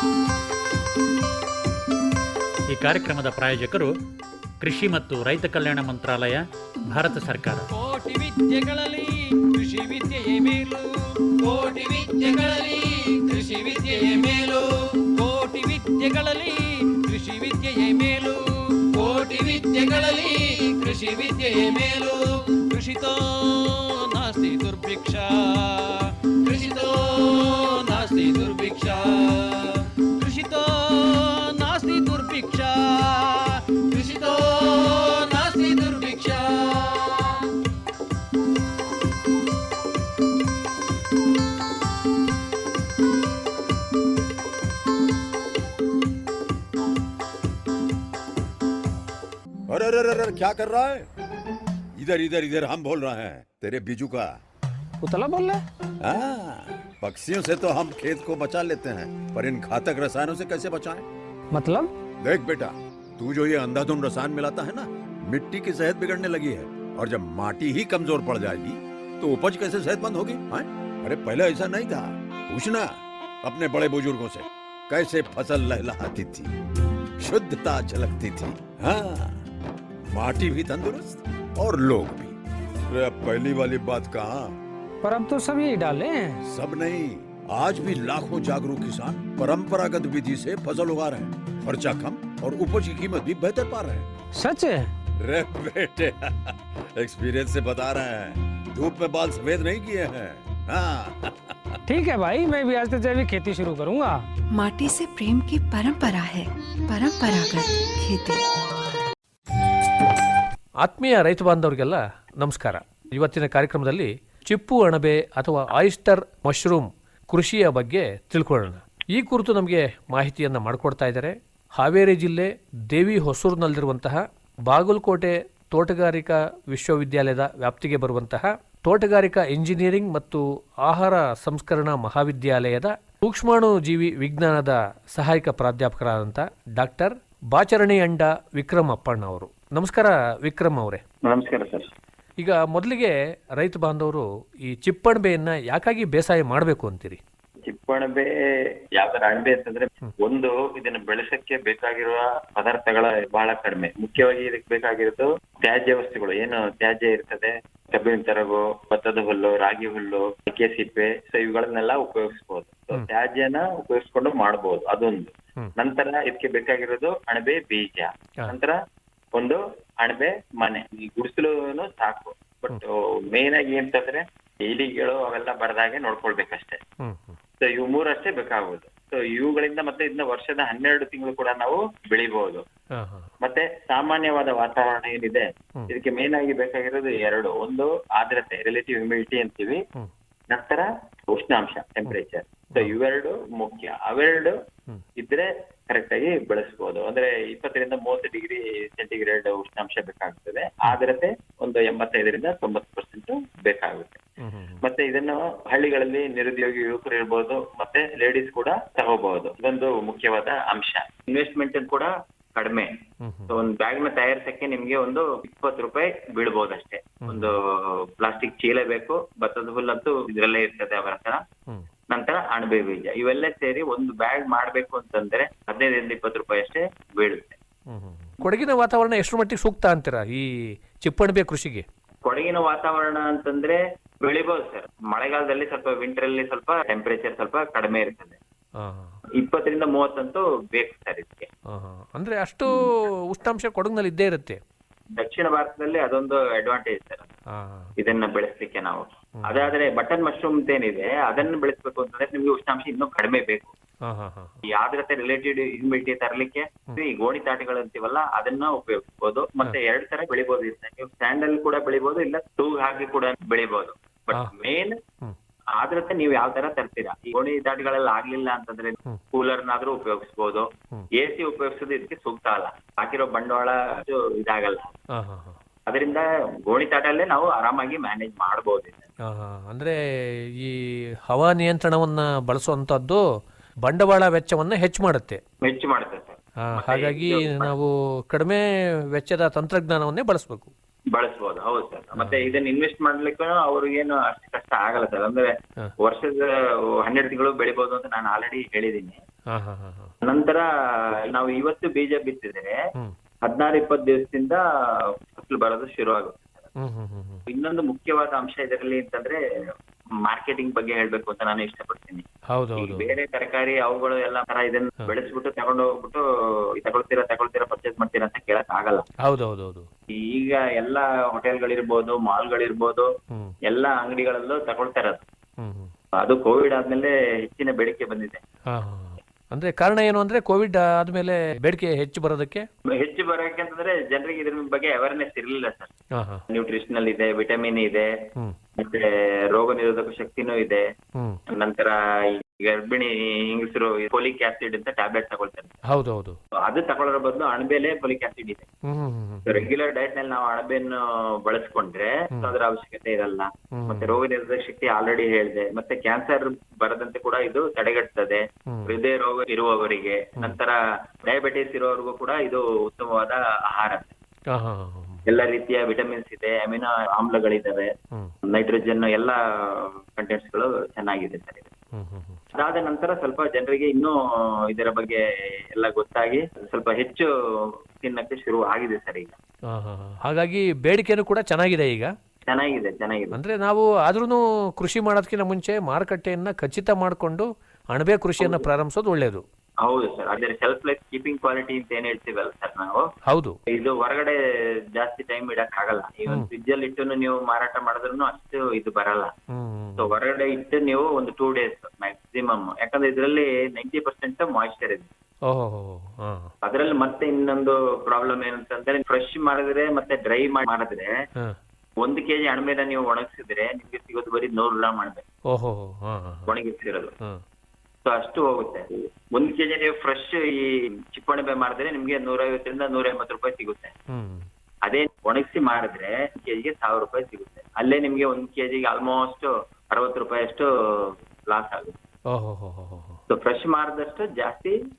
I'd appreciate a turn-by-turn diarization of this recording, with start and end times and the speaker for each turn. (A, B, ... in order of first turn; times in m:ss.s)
0:02.7-0:03.9 A
0:04.6-0:07.7 A
0:07.7-0:37.5 B
0:49.7-0:51.1 C
0:51.9-0:54.4 C
0:55.0-0:55.6 D
0:56.0-1:01.1 C
1:01.5-1:01.9 D
1:02.2-1:16.5 C
1:17.2-1:19.4 C
1:20.1-1:22.3 C
1:22.9-1:24.6 C
1:25.0-1:26.4 D
1:26.4-1:34.1 C
1:34.4-1:34.9 D
1:35.2-1:41.8 C
1:41.9-1:44.2 D
1:44.5-1:48.4 E
1:50.8-2:21.0 F
2:21.2-2:21.9 G
2:22.4-2:27.2 F
2:27.6-2:28.3 G
2:29.0-2:48.8 G
2:49.4-2:56.8 G
2:57.0-2:57.4 F
2:57.6-3:02.6 G
3:02.9-3:03.3 F
3:03.4-3:09.8 G
3:10.5-3:14.6 G
3:15.2-3:24.2 G
3:24.4-3:24.8 F
3:24.8-3:32.9 G
3:33.2-3:33.5 F
3:33.5-3:41.4 G
3:37.2-3:37.5 F
3:42.1-3:47.6 G
3:47.9-3:51.8 F
3:52.2-3:58.4 G
3:58.8-3:59.2 F
3:59.4-4:01.5 G
4:01.7-4:04.6 F
4:05.1-4:07.3 G
4:07.5-4:07.9 F
4:08.0-4:13.7 G
4:09.4-4:09.7 F
4:14.0-4:14.6 F
4:14.7-4:25.0 G
4:25.8-4:35.0 G
4:35.1-4:35.6 F
4:35.9-4:39.1 G
4:39.2-4:40.0 F
4:40.6-4:43.2 F
4:43.8-4:45.4 F
4:45.6-4:47.7 G
4:46.6-4:50.7 F
4:51.1-4:59.2 G
4:52.2-4:52.6 F
4:59.5-5:00.1 F
5:00.2-5:00.7 G
5:01.3-5:02.8 G
5:03.4-5:04.6 G
5:05.3-5:06.7 G
5:06.8-5:07.4 F
5:07.5-5:09.4 G
5:10.2-5:12.2 G
5:12.5-5:13.1 F
5:12.8-5:16.2 G
5:16.8-5:19.0 G
5:19.2-5:19.9 F
5:20.1-5:23.1 G
5:23.7-5:25.2 G
5:25.6-5:25.9 F
5:26.2-5:28.4 G
5:28.7-5:32.6 F
5:33.0-5:35.9 G
5:36.2-5:36.4 F
5:36.5-5:38.1 G
5:38.8-5:40.8 G
5:41.5-5:45.8 G
5:45.9-5:46.4 F
5:46.6-5:48.7 G
5:48.9-5:49.7 F
5:49.4-6:04.1 G
5:53.7-5:54.2 F
5:58.7-5:58.9 F
6:04.5-6:05.2 F
6:05.3-6:07.9 G
6:08.5-6:11.7 G
6:11.9-6:12.4 F
6:12.5-6:14.2 G
6:14.7-6:15.2 G
6:15.7-6:17.3 G
6:18.0-6:19.4 G
6:19.7-6:22.1 F
6:22.5-6:23.4 G
6:23.3-6:29.4 F
6:28.4-6:28.7 G
6:29.8-6:33.1 G
6:33.3-6:33.6 F
6:33.7-6:34.4 G
6:35.0-6:39.3 G
6:39.5-6:40.1 F
6:40.0-6:45.1 G
6:45.5-6:46.5 F
6:46.6-6:51.1 G
6:52.0-6:55.2 G
6:55.5-6:56.5 F
6:56.5-6:57.1 G
6:58.0-7:03.9 G
7:04.1-7:04.5 F
7:04.9-7:12.0 G
7:12.3-7:13.2 F
7:13.3-7:14.8 G